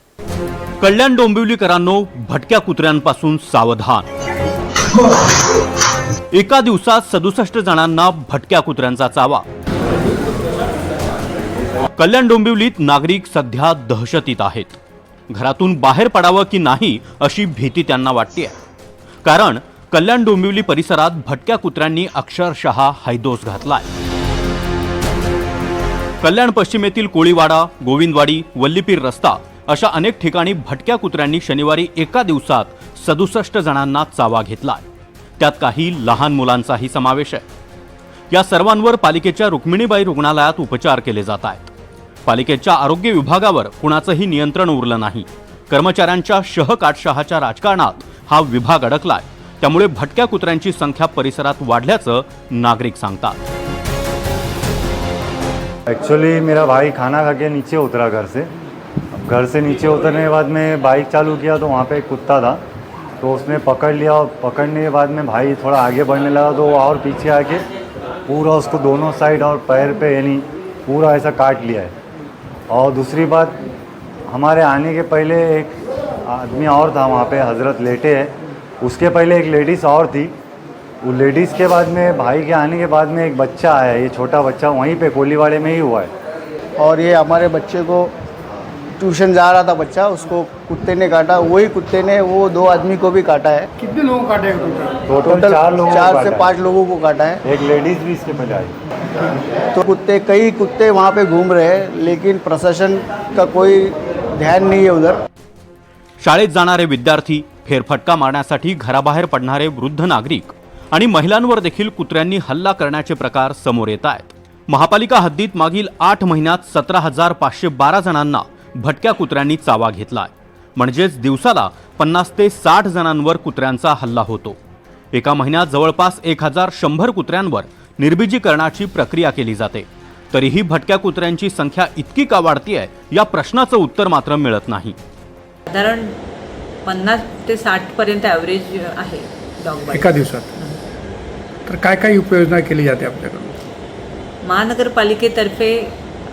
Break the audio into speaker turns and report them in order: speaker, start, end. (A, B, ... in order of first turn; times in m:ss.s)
0:00.8-0:04.1 A
0:06.3-0:09.4 A
0:12.0-0:14.8 A
0:15.3-0:18.6 A
0:19.2-0:23.9 A
0:26.2-0:34.8 A
0:35.4-0:37.4 A
0:38.3-0:41.7 A
0:42.3-0:53.4 A
0:55.9-0:58.5 B
0:59.2-1:02.6 B
1:03.2-1:07.6 B
1:08.3-1:11.9 B
1:12.7-1:13.6 B
1:14.3-1:20.3 B
1:21.0-1:26.1 B
1:26.8-1:28.1 C
1:29.0-1:33.7 C
1:33.8-1:35.0 D
1:35.1-1:36.5 B
1:35.2-1:37.4 C
1:37.4-1:38.7 B
1:39.7-1:45.2 C
1:46.2-2:04.6 A
2:05.1-2:15.0 A
2:15.7-2:16.2 E
2:16.8-2:20.8 E
2:19.9-2:20.6 D
2:21.7-2:23.6 D
2:24.4-2:25.9 E